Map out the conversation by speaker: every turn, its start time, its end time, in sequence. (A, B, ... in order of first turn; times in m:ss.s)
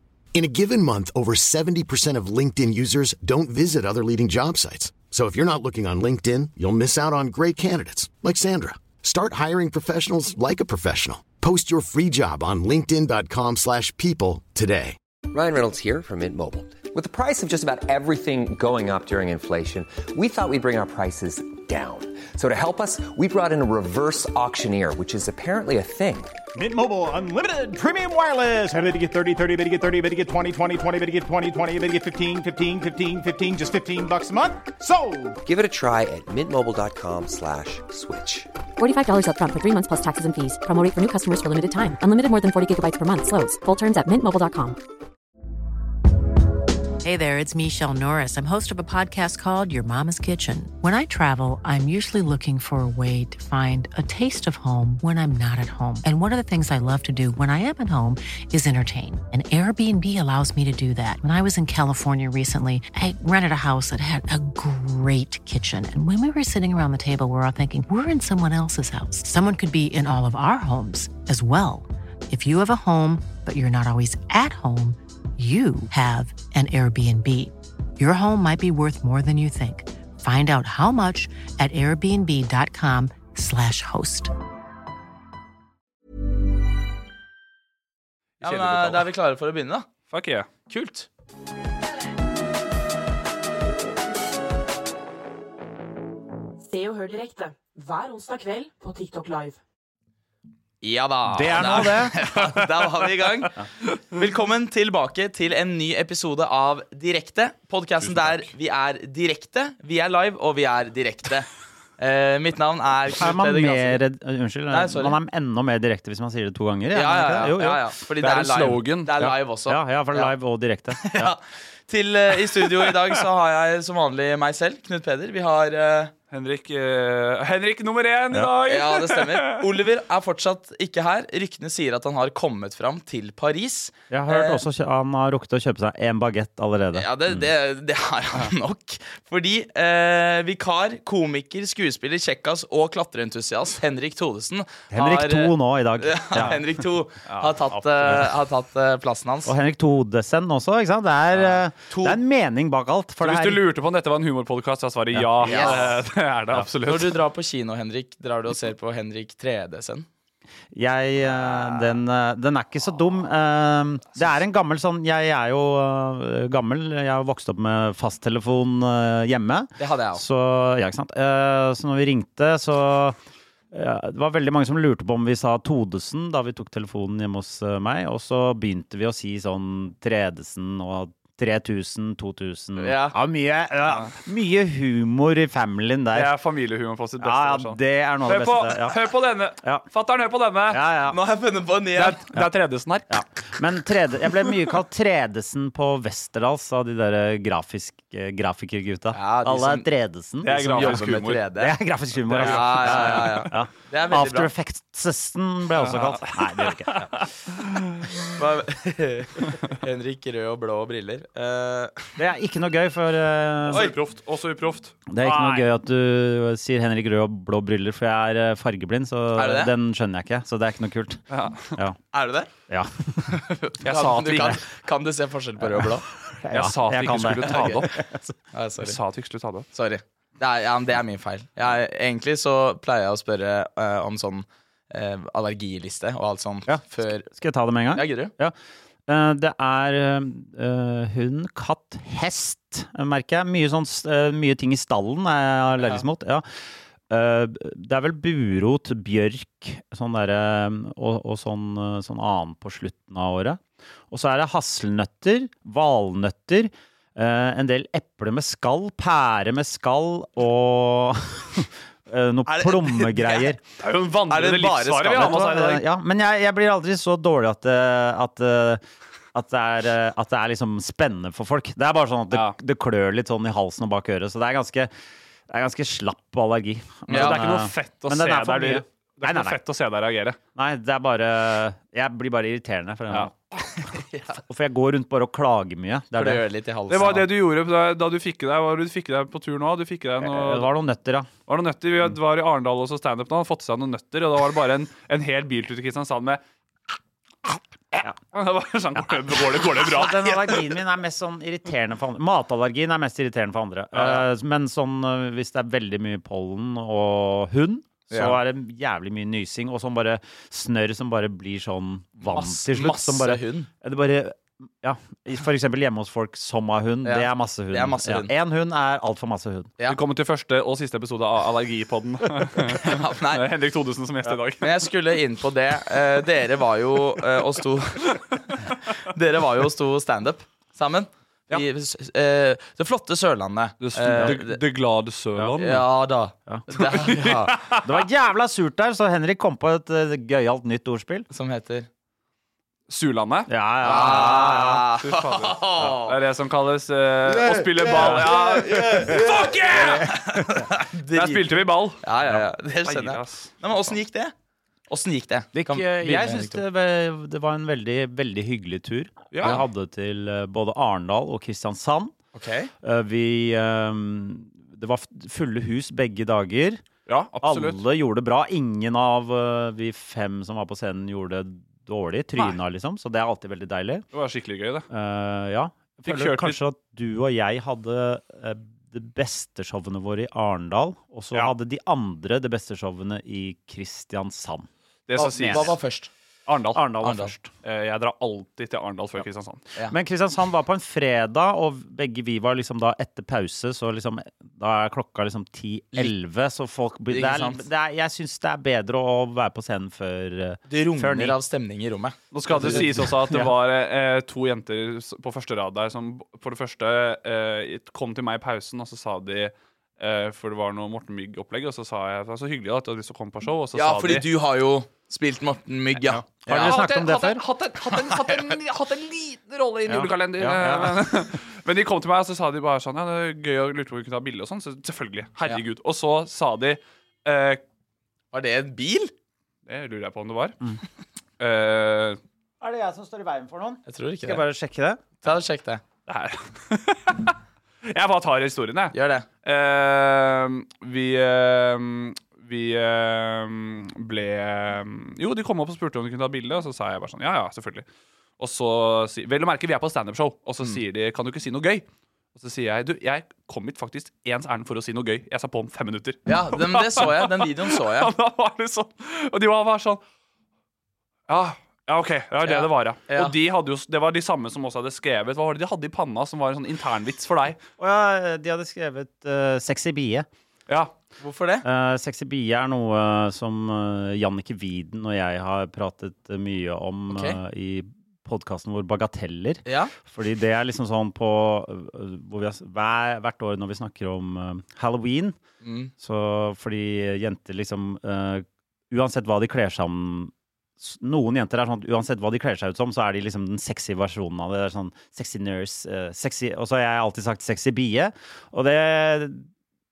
0:00.3-0:15.0 A
0:15.3-0:26.3 B
0:26.5-0:35.4 C
0:35.4-0:38.5 B
0:38.8-0:44.8 D
0:47.0-1:24.3 E
1:28.4-1:29.1 F
1:28.4-1:29.9 G
1:30.1-1:30.5 F
1:30.7-1:31.1 G
1:36.6-1:39.6 H
1:40.8-1:43.6 G
1:41.3-1:42.2 I
1:44.1-1:51.5 G
1:48.0-1:48.4 F
1:52.0-1:54.0 G
1:53.1-1:57.8 I
1:54.7-1:55.2 G
1:56.9-2:00.3 G
1:58.2-1:59.1 F
1:59.2-2:01.3 I
2:01.0-2:06.1 G
2:06.3-2:09.6 F
2:08.6-2:14.6 G
2:14.1-2:17.4 I
2:16.9-2:29.5 G
2:24.9-2:26.6 I
2:27.3-2:28.3 F
2:29.4-2:33.6 I
2:31.3-2:31.6 F
2:31.9-2:32.2 G
2:33.2-2:37.2 F
2:35.1-2:35.9 I
2:35.4-2:35.9 G
2:36.8-2:40.1 G
2:40.7-2:53.2 I
2:49.8-2:50.2 G
2:53.7-3:06.3 I
3:02.8-3:03.2 G
3:06.1-3:10.8 F
3:07.2-3:09.0 I
3:10.7-3:11.2 I
3:11.1-3:12.2 G
3:12.0-3:13.1 F
3:13.1-3:27.2 I
3:19.1-3:19.9 G
3:20.4-3:21.4 F
3:20.6-3:21.8 G
3:22.3-3:23.4 F
3:22.3-3:24.5 G
3:25.8-3:28.0 F
3:28.4-3:32.1 G
3:32.2-3:33.9 I
3:33.7-3:35.6 F
3:35.1-3:41.2 I
3:39.4-3:39.7 G
3:41.3-3:41.8 F
3:42.1-3:42.5 G
3:42.7-3:43.3 I
3:43.3-3:46.0 G
3:43.8-3:44.6 F
3:46.3-3:48.3 I
3:46.5-3:47.9 F
3:47.4-3:47.9 G
3:48.5-3:49.0 G
3:48.8-3:49.7 F
3:49.7-3:57.3 G
3:56.7-3:58.5 I
3:57.9-3:58.3 G
3:59.1-4:06.4 I
4:07.1-4:23.6 I
4:22.5-4:23.5 G
4:23.8-4:25.8 F
4:24.3-4:25.5 G
4:25.1-4:28.8 I
4:29.3-4:34.9 I
4:32.3-4:32.6 F
4:35.5-4:39.6 I
4:37.1-4:40.4 F
4:37.1-4:37.4 G
4:40.5-4:43.3 I
4:43.9-4:44.4 G
4:44.5-4:46.4 I
4:46.2-4:47.2 G
4:46.9-4:50.7 F
4:50.2-4:51.3 I
4:51.5-4:56.4 F
4:58.3-5:00.7 F
4:59.0-5:19.7 I
5:08.1-5:08.4 G
5:12.2-5:13.7 G
5:17.0-5:18.3 G
5:19.9-5:24.7 F
5:22.7-5:23.4 G
5:24.6-5:28.2 G
5:28.9-5:34.6 G
5:33.8-5:35.8 F
5:35.6-5:37.6 G
5:36.5-5:41.3 I
5:37.5-5:37.8 F
5:41.3-5:41.9 G
5:42.9-5:50.2 F
5:43.5-5:44.8 I
5:43.8-5:46.2 G
5:47.6-5:49.3 I
5:48.0-5:54.3 G
5:49.8-5:50.1 I
5:51.1-5:53.8 F
5:54.9-5:56.6 G
5:55.5-6:02.1 I
5:59.3-5:59.6 F
6:02.3-6:02.7 G
6:02.8-6:06.8 I
6:07.1-6:07.8 F
6:07.4-6:14.0 I
6:14.1-6:14.8 F
6:14.9-6:25.7 I
6:16.0-6:16.6 F
6:25.1-6:25.8 F
6:25.2-6:26.1 G
6:26.5-6:26.9 F
6:26.7-6:27.5 I
6:27.0-6:27.3 G
6:27.6-6:29.6 F
6:29.9-6:41.4 I
6:37.1-6:37.6 G
6:40.7-6:43.0 G
6:42.3-6:54.3 F
6:42.6-6:43.5 I
6:53.7-6:56.8 G
6:56.4-7:07.6 F
6:56.4-6:57.4 I
6:57.9-6:58.4 G
6:59.9-7:01.3 I
7:08.3-7:09.1 G
7:09.7-7:10.6 F
7:11.4-7:12.2 F
7:12.6-7:15.0 I
7:13.9-7:14.4 G
7:15.2-7:15.8 G
7:16.1-7:27.8 F
7:18.9-7:19.2 G
7:28.4-7:40.0 F
7:36.3-7:38.1 G
7:41.3-7:47.6 F
7:42.4-7:43.3 G
7:47.8-7:50.3 I
7:51.2-7:51.6 G
7:51.6-8:05.4 I
7:57.1-7:57.4 G
7:59.6-7:59.9 G
8:05.6-8:05.9 G
8:06.0-8:19.5 I